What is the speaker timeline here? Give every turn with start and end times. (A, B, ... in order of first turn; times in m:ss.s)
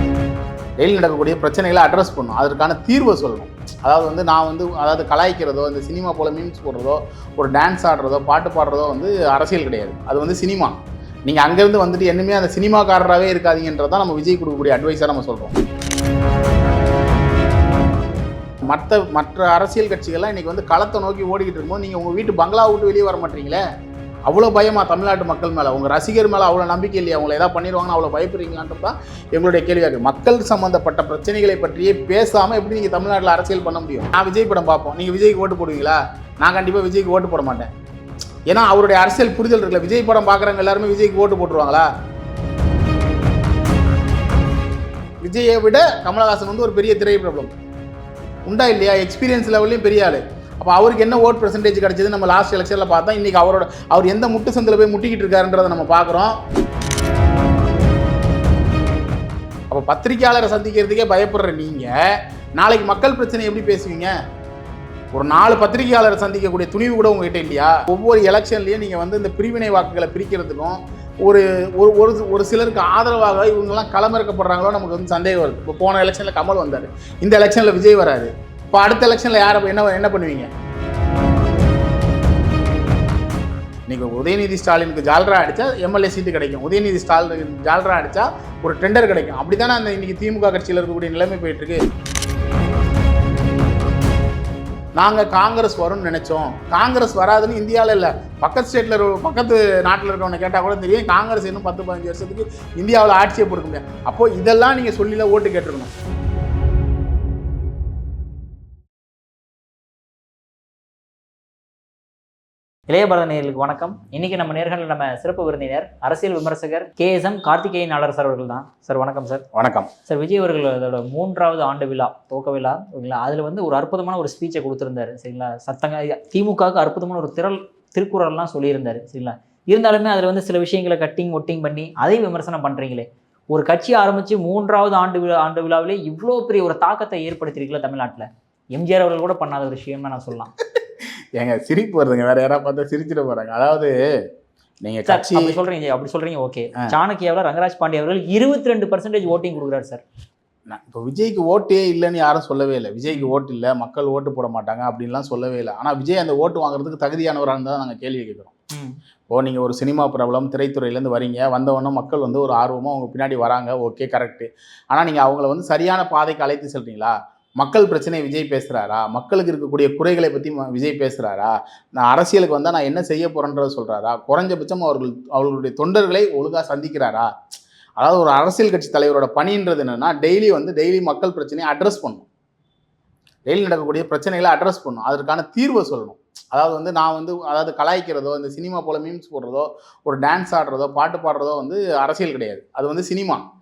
0:00.8-0:10.8 A
0:11.3-0:15.6 A
0:18.7-0:23.6 A
0:24.3-0:37.7 A
0:38.5-0:41.9 A
0:45.2-0:47.5 A
0:48.5-0:56.4 A
0:59.7-1:04.1 A
1:05.1-1:20.5 A
1:23.9-1:31.8 A
1:35.0-1:45.9 A
1:52.9-1:59.4 B
1:59.5-1:59.9 A
2:00.1-2:20.5 B
2:21.3-2:23.9 A
2:24.8-2:25.6 A
2:25.0-2:30.0 B
2:30.7-2:38.5 A
2:33.1-2:33.4 B
2:38.7-2:39.0 B
2:39.3-2:57.3 A
2:58.0-3:02.2 A
3:03.5-3:13.4 A